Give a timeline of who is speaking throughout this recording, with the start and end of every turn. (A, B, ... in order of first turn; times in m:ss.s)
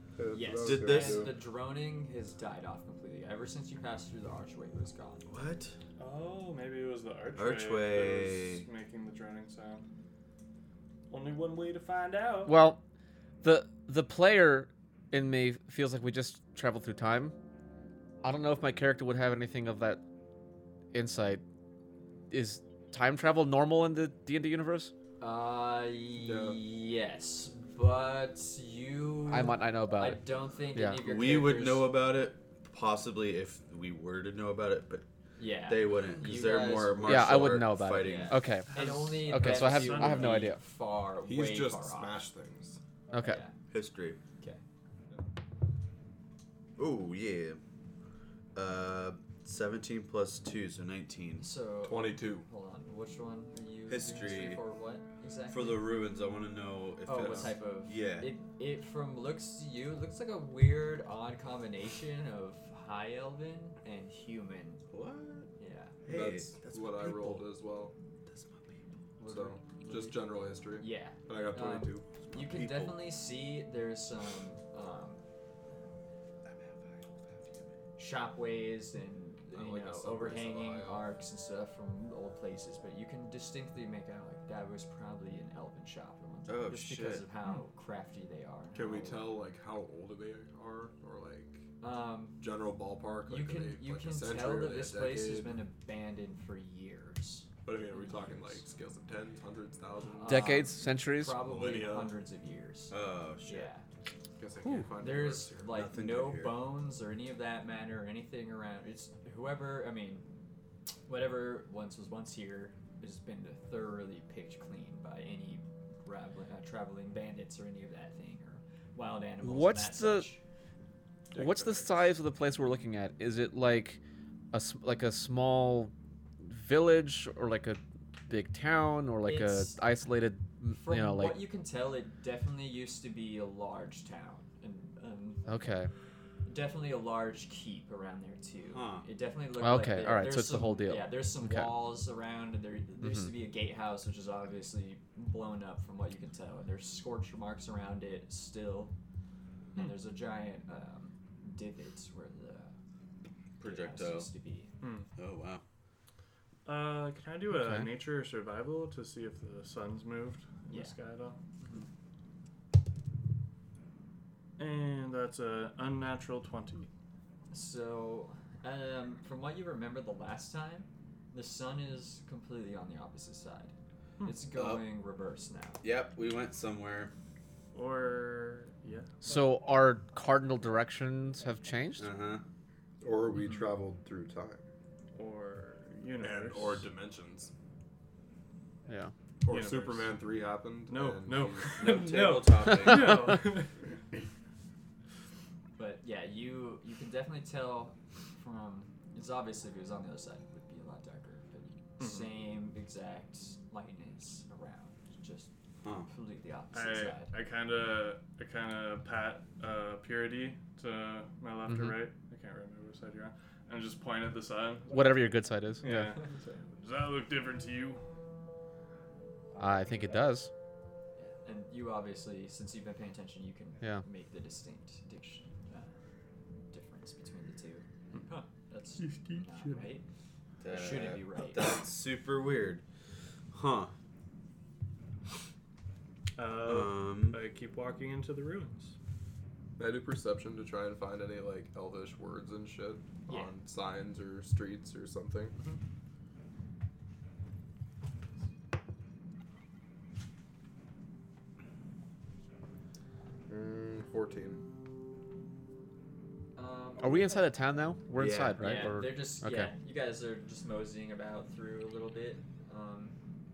0:00.2-0:01.4 A
0:00.3-0:05.3 B
0:00.6-0:01.4 C
0:05.3-0:05.8 C
0:06.0-0:09.8 D
0:07.4-0:08.6 C
0:11.1-0:12.6 D
0:12.5-0:12.8 E
0:13.4-0:17.4 E
0:18.2-0:20.0 E
0:20.9-0:21.4 E
0:22.3-0:24.9 E
0:25.2-0:31.9 B
0:26.2-0:26.6 A
0:29.3-0:30.2 E
0:31.0-0:35.1 C
0:35.4-0:42.2 B
0:35.7-0:38.4 C
0:37.0-0:40.6 E
0:38.7-0:40.5 D
0:41.3-0:42.8 A
0:43.1-0:43.4 E
0:43.1-0:43.5 B
0:43.7-0:44.2 C
0:46.8-0:47.6 C
0:48.6-0:51.4 C
0:51.4-0:55.8 B
0:51.8-0:52.5 A
0:53.9-0:54.6 C
0:55.5-0:58.3 C
0:57.0-1:04.8 B
0:57.2-0:57.5 A
1:04.9-1:05.5 C
1:05.6-1:06.0 B
1:06.0-1:07.5 C
1:06.1-1:07.9 A
1:08.3-1:08.8 C
1:09.2-1:10.2 B
1:09.3-1:12.0 A
1:10.7-1:15.2 B
1:12.2-1:13.1 C
1:16.4-1:17.7 C
1:18.0-1:29.3 B
1:19.5-1:21.1 A
1:26.5-1:27.2 C
1:28.7-1:31.7 A
1:31.8-1:32.4 B
1:32.4-1:35.6 A
1:33.3-1:38.6 B
1:37.6-1:40.6 A
1:40.1-1:43.9 B
1:40.3-1:41.4 E
1:41.4-1:42.2 A
1:42.9-1:43.7 C
1:44.4-1:45.7 A
1:44.6-1:44.9 E
1:45.0-1:50.2 B
1:45.7-1:46.6 C
1:51.1-2:00.4 B
1:59.4-2:00.3 E
2:01.3-2:02.1 A
2:01.4-2:04.0 E
2:04.5-2:11.4 E
2:09.2-2:09.9 B
2:10.7-2:15.6 B
2:15.5-2:15.9 E
2:16.5-2:28.9 B
2:18.7-2:19.1 C
2:19.6-2:21.7 E
2:23.0-2:23.3 E
2:29.8-2:32.8 B
2:33.6-2:34.3 C
2:33.6-2:34.7 B
2:34.8-2:35.1 D
2:35.2-2:35.6 C
2:36.6-2:41.4 D
2:37.5-2:37.9 E
2:40.7-2:41.0 B
2:41.6-2:41.9 B
2:44.6-2:46.9 D
2:47.5-2:53.7 B
2:54.2-2:55.8 B
2:54.6-2:54.8 C
2:55.8-2:57.1 C
2:57.7-2:59.1 D
2:59.2-3:02.1 E
3:02.0-3:02.4 C
3:03.0-3:04.6 A
3:03.4-3:03.7 B
3:05.2-3:06.9 D
3:06.2-3:07.5 A
3:08.9-3:09.1 E
3:09.4-3:12.0 A
3:09.5-3:10.2 D
3:10.9-3:13.7 D
3:11.7-3:13.4 C
3:13.0-3:13.4 E
3:15.8-3:25.5 B
3:22.0-3:22.3 D
3:25.8-3:26.1 C
3:26.0-3:27.3 B
3:26.7-3:38.0 D
3:31.7-3:32.0 E
3:34.9-3:36.2 E
3:39.6-3:40.5 E
3:41.2-3:45.9 B
3:46.7-3:50.0 B
3:49.1-3:49.4 D
3:50.6-3:52.8 C
3:50.7-3:51.8 B
3:53.5-3:53.9 C
3:56.4-3:59.0 D
3:56.6-3:57.4 C
3:59.8-4:05.6 A
4:03.3-4:03.5 B
4:13.5-4:14.6 A
4:16.6-4:17.4 B
4:17.0-4:19.7 E
4:18.2-4:18.7 C
4:18.6-4:23.2 B